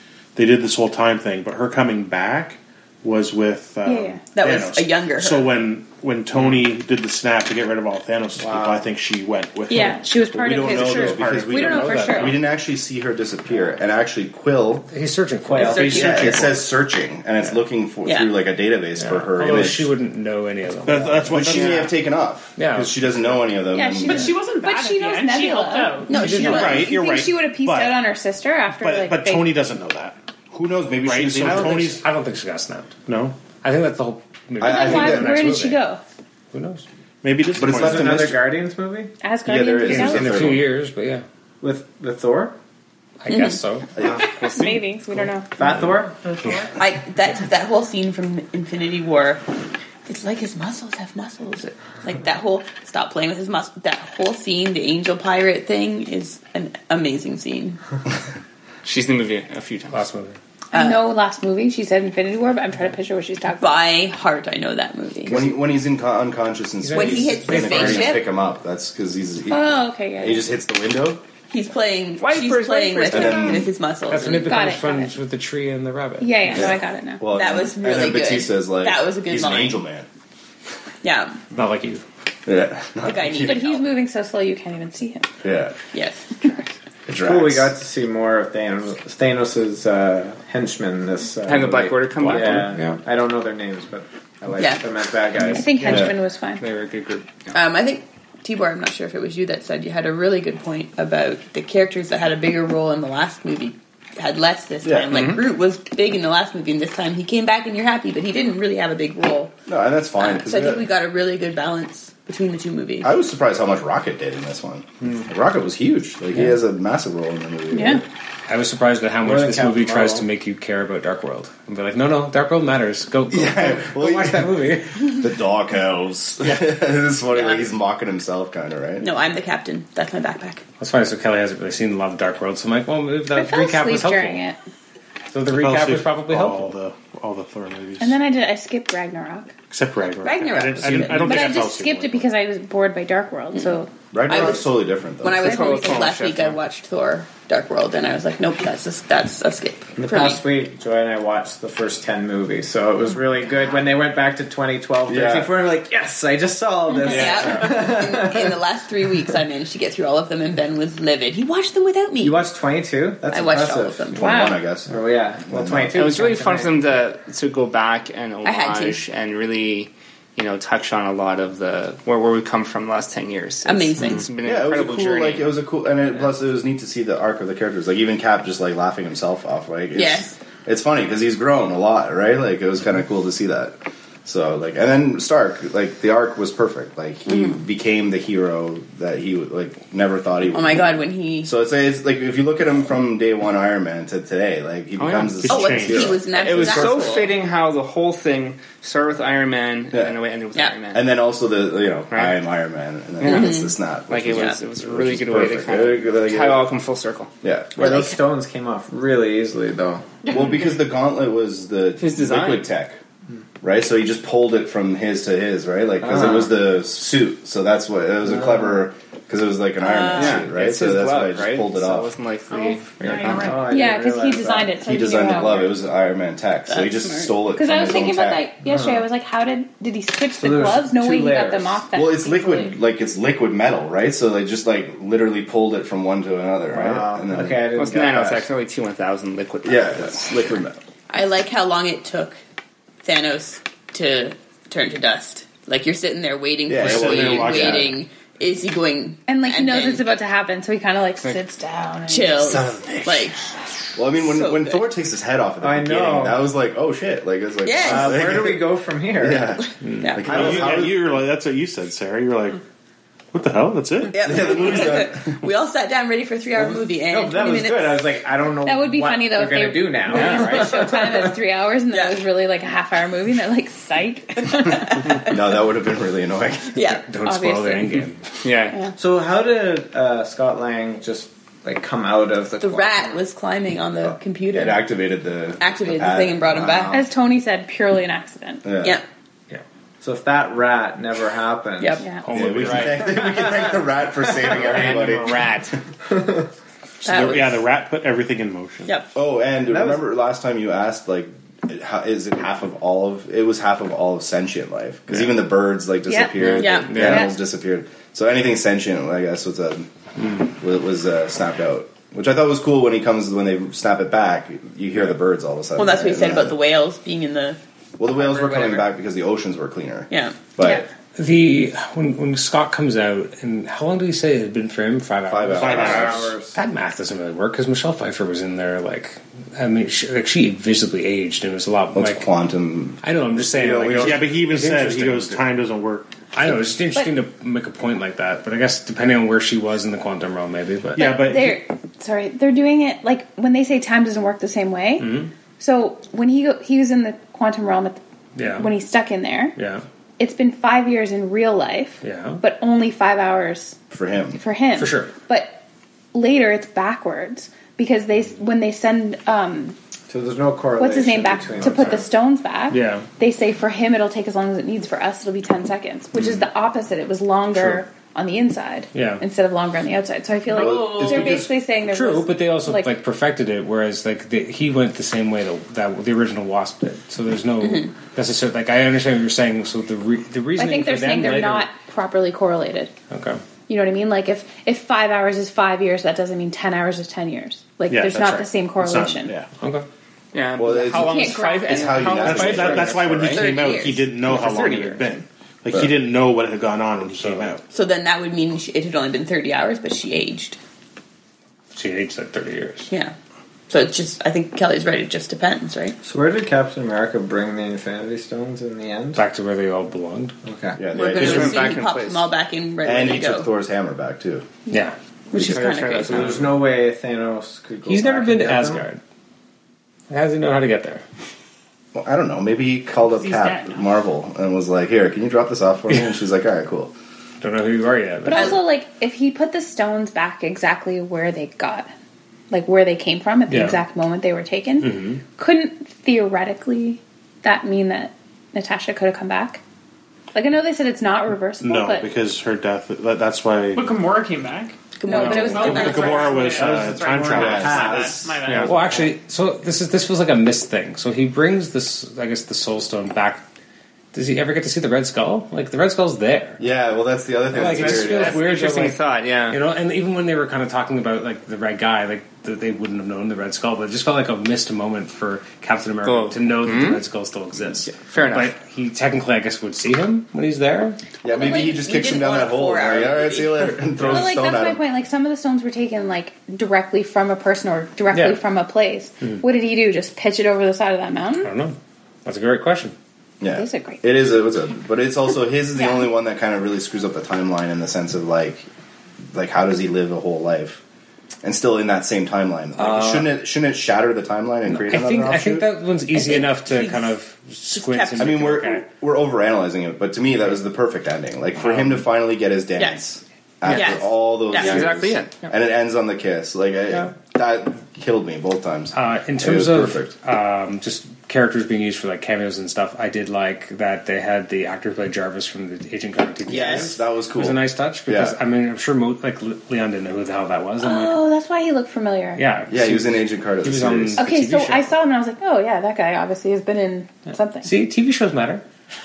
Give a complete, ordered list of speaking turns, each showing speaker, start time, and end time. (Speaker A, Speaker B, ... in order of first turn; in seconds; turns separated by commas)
Speaker A: 0.3-12.3, Speaker B: 3.8-4.2, Speaker C: 4.3-5.6, Speaker D: 8.4-8.9, Speaker B: 9.7-12.4, Speaker E: 10.3-14.9, Speaker F: 11.6-12.3, Speaker F: 14.9-16.1, Speaker D: 15.4-16.2, Speaker C: 15.6-16.4, Speaker E: 15.7-19.9, Speaker A: 15.9-16.5, Speaker F: 19.0-21.3, Speaker A: 20.9-21.9, Speaker E: 21.2-24.4, Speaker G: 21.5-21.9, Speaker F: 22.6-23.0, Speaker B: 23.7-29.5, Speaker H: 24.0-26.1, Speaker C: 26.1-26.9, Speaker F: 26.1-26.8, Speaker A: 26.3-28.0, Speaker A: 28.7-30.2, Speaker E: 30.5-32.0, Speaker A: 31.0-32.0, Speaker F: 31.4-32.9, Speaker A: 33.1-33.4, Speaker F: 33.6-35.8, Speaker E: 34.6-35.3, Speaker B: 34.6-36.0, Speaker F: 36.5-36.8, Speaker A: 37.2-38.3, Speaker E: 37.6-38.5, Speaker D: 37.7-39.1, Speaker B: 39.2-40.5, Speaker E: 39.4-40.6, Speaker F: 39.9-41.2, Speaker D: 41.6-42.5, Speaker F: 43.2-43.9, Speaker C: 43.3-43.6, Speaker E: 44.0-44.3, Speaker B: 44.4-45.5, Speaker G: 44.6-44.8, Speaker D: 45.5-46.2, Speaker F: 45.6-46.0, Speaker H: 46.2-46.8, Speaker C: 46.8-49.4, Speaker C: 50.0-57.8, Speaker G: 58.8-60.0, Speaker F: 59.9-60.4, Speaker B: 60.7-63.8, Speaker C: 60.7-61.1, Speaker C: 63.6-65.5, Speaker E: 65.2-71.2, Speaker F: 66.8-68.2, Speaker C: 66.9-68.2, Speaker B: 69.5-70.5, Speaker C: 71.5-74.6, Speaker G: 72.2-73.6, Speaker E: 73.1-73.7, Speaker F: 74.1-76.7, Speaker B: 74.4-75.1, Speaker B: 76.2-77.2, Speaker E: 76.5-80.1, Speaker C: 77.3-79.8, Speaker C: 81.0-81.4, Speaker F: 81.5-82.0, Speaker E: 82.5-83.6, Speaker C: 83.0-83.8, Speaker B: 83.4-85.3, Speaker E: 85.4-85.7, Speaker C: 85.9-86.7, Speaker E: 87.1-87.7, Speaker D: 87.1-96.0, Speaker G: 91.5-92.7, Speaker F: 92.2-93.0, Speaker C: 94.6-94.8, Speaker B: 95.4-96.6, Speaker G: 95.8-97.6, Speaker C: 97.5-109.5, Speaker E: 104.8-105.3, Speaker G: 105.1-105.4, Speaker E: 109.7-110.9, Speaker C: 110.2-113.1, Speaker E: 113.0-118.0, Speaker B: 117.7-118.0, Speaker F: 118.5-125.1, Speaker D: 119.2-120.3, Speaker E: 123.3-129.1, Speaker C: 127.3-127.7, Speaker C: 129.0-130.6, Speaker F: 130.8-134.4, Speaker B: 133.3-134.6, Speaker F: 135.3-136.7, Speaker A: 135.5-138.2, Speaker B: 138.0-139.5, Speaker A: 139.7-142.2, Speaker C: 140.2-141.5, Speaker B: 141.1-143.9, Speaker E: 144.1-145.6, Speaker C: 144.3-144.7, Speaker C: 145.2-150.4, Speaker G: 145.4-146.6, Speaker B: 145.4-146.1, Speaker D: 150.0-158.6, Speaker E: 155.1-155.5, Speaker C: 157.1-162.4, Speaker D: 162.2-164.1, Speaker C: 163.3-164.5, Speaker E: 164.1-166.1, Speaker B: 164.2-164.6, Speaker D: 164.8-166.9, Speaker G: 165.9-175.5, Speaker C: 168.4-169.0, Speaker C: 173.6-174.2, Speaker E: 174.4-197.1, Speaker C: 179.9-180.3, Speaker C: 187.3-187.6, Speaker C: 190.5-191.5, Speaker G: 195.0-195.4, Speaker A: 195.4-196.2, Speaker C: 195.5-197.3, Speaker G: 196.3-201.1, Speaker E: 199.9-200.2, Speaker E: 200.9-206.7, Speaker G: 202.1-202.4, Speaker G: 203.2-207.3, Speaker C: 203.2-203.7, Speaker C: 204.3-204.6, Speaker E: 207.4-208.0, Speaker D: 207.8-210.3, Speaker C: 207.8-208.2, Speaker H: 210.3-210.7, Speaker E: 210.3-213.0, Speaker G: 212.0-212.7, Speaker E: 213.6-222.1, Speaker D: 216.0-216.5, Speaker D: 218.3-218.6, Speaker C: 219.8-220.5, Speaker G: 220.1-223.6, Speaker H: 222.5-223.7, Speaker D: 223.0-224.8, Speaker B: 223.7-225.7, Speaker E: 224.8-228.5, Speaker C: 226.7-227.4, Speaker B: 227.5-232.8, Speaker D: 228.6-229.1, Speaker D: 230.4-231.8, Speaker E: 231.9-237.8, Speaker D: 236.7-238.5, Speaker G: 237.7-240.2, Speaker E: 239.6-240.8, Speaker C: 241.1-242.4, Speaker C: 243.0-250.0, Speaker E: 246.7-247.9, Speaker A: 246.7-247.9, Speaker B: 249.3-252.6, Speaker C: 252.1-253.4, Speaker E: 252.5-253.3, Speaker E: 253.9-261.2, Speaker C: 254.1-254.9, Speaker D: 255.6-256.4, Speaker C: 257.6-258.5, Speaker D: 257.8-259.6, Speaker C: 259.6-260.5, Speaker F: 259.8-260.2, Speaker D: 260.3-260.8, Speaker A: 260.3-262.6, Speaker A: 263.3-264.6, Speaker C: 264.1-268.2, Speaker E: 264.2-265.4, Speaker D: 266.5-271.3, Speaker B: 268.6-275.0, Speaker G: 270.1-270.5, Speaker C: 271.9-272.2, Speaker C: 274.6-275.3, Speaker E: 275.2-276.8, Speaker C: 276.7-277.1, Speaker F: 276.9-278.2, Speaker B: 277.2-278.0, Speaker G: 278.4-278.8, Speaker D: 279.0-283.1, Speaker C: 282.6-284.9, Speaker E: 284.0-287.0, Speaker C: 285.6-287.0, Speaker B: 286.9-288.6, Speaker E: 288.6-289.0, Speaker D: 290.0-292.0, Speaker C: 291.8-292.0, Speaker B: 292.0-292.2, Speaker F: 292.2-293.2, Speaker E: 292.3-295.5, Speaker D: 293.2-293.7, Speaker G: 294.4-295.7, Speaker D: 296.1-296.4, Speaker A: 297.0-298.9, Speaker C: 297.0-297.6, Speaker C: 298.8-299.1, Speaker E: 299.1-309.9, Speaker D: 299.7-300.1, Speaker B: 306.1-306.4, Speaker G: 306.4-307.2, Speaker C: 306.6-307.1, Speaker B: 306.9-307.3, Speaker E: 310.5-316.6, Speaker C: 315.8-317.6, Speaker E: 318.0-320.9, Speaker C: 320.1-320.4, Speaker F: 321.1-332.2, Speaker E: 325.3-326.3, Speaker A: 325.6-326.3, Speaker D: 325.6-326.6, Speaker E: 331.9-334.4, Speaker F: 333.0-335.4, Speaker A: 333.8-336.1, Speaker F: 336.3-341.1, Speaker A: 340.9-341.6, Speaker B: 341.0-349.5, Speaker F: 345.0-345.3, Speaker F: 348.3-348.7, Speaker F: 349.6-349.8, Speaker B: 350.2-353.8, Speaker F: 352.0-352.4, Speaker E: 353.9-354.4, Speaker B: 354.3-355.6, Speaker F: 354.7-355.1, Speaker B: 356.1-359.8, Speaker D: 360.1-362.1, Speaker B: 360.8-372.9, Speaker F: 362.7-363.1, Speaker F: 367.5-367.8, Speaker F: 368.9-369.2, Speaker C: 370.5-371.4, Speaker E: 370.5-371.5, Speaker F: 371.9-381.7, Speaker C: 377.6-377.9, Speaker B: 380.6-382.9, Speaker F: 383.1-383.4, Speaker B: 383.7-389.3, Speaker A: 387.9-389.5, Speaker F: 389.6-389.9, Speaker G: 390.3-393.0, Speaker E: 390.6-393.5, Speaker B: 390.9-392.1, Speaker A: 392.2-397.6, Speaker C: 393.2-394.1, Speaker G: 394.2-395.1, Speaker F: 397.1-397.5, Speaker C: 397.7-400.6, Speaker F: 401.7-402.9, Speaker C: 402.9-403.1, Speaker C: 403.7-406.0, Speaker D: 406.0-409.2, Speaker F: 409.1-410.4, Speaker D: 410.4-410.8, Speaker E: 410.8-411.8, Speaker C: 410.9-413.5, Speaker G: 411.1-412.3, Speaker E: 412.8-414.4, Speaker F: 414.7-414.9, Speaker C: 415.3-416.5, Speaker G: 415.3-416.5, Speaker D: 415.5-418.9, Speaker F: 417.9-419.0, Speaker F: 420.1-421.0, Speaker E: 421.9-426.9, Speaker H: 423.0-424.0, Speaker F: 427.4-428.6, Speaker B: 428.2-431.9, Speaker C: 428.3-428.6, Speaker B: 432.5-439.6, Speaker F: 433.5-433.8, Speaker F: 434.8-435.2, Speaker B: 440.3-442.1, Speaker A: 441.6-443.9, Speaker H: 443.8-449.1, Speaker C: 445.0-446.6, Speaker B: 445.1-446.3, Speaker A: 445.4-448.8, Speaker D: 446.4-448.3, Speaker E: 447.3-448.2, Speaker F: 448.6-453.4, Speaker F: 454.1-456.6, Speaker E: 456.6-458.4, Speaker F: 457.5-471.0, Speaker D: 457.6-458.1, Speaker G: 457.8-459.6, Speaker G: 466.0-467.0, Speaker G: 467.8-468.5, Speaker E: 471.2-474.8, Speaker C: 471.2-473.8, Speaker B: 474.0-481.5, Speaker F: 478.1-478.4, Speaker F: 481.4-482.9, Speaker E: 483.4-488.7, Speaker B: 483.5-484.0, Speaker B: 485.8-486.1, Speaker E: 489.3-490.8, Speaker E: 491.4-495.7, Speaker F: 492.8-493.3, Speaker F: 494.6-498.8, Speaker C: 496.1-497.1, Speaker C: 497.7-498.6, Speaker E: 498.2-510.1, Speaker G: 503.7-503.9, Speaker C: 503.7-504.8, Speaker G: 504.5-505.5, Speaker F: 508.9-521.2, Speaker E: 516.5-518.4, Speaker C: 516.5-516.9, Speaker B: 520.8-522.4, Speaker F: 522.4-524.9, Speaker E: 522.7-524.2, Speaker B: 524.2-527.7, Speaker F: 527.6-528.6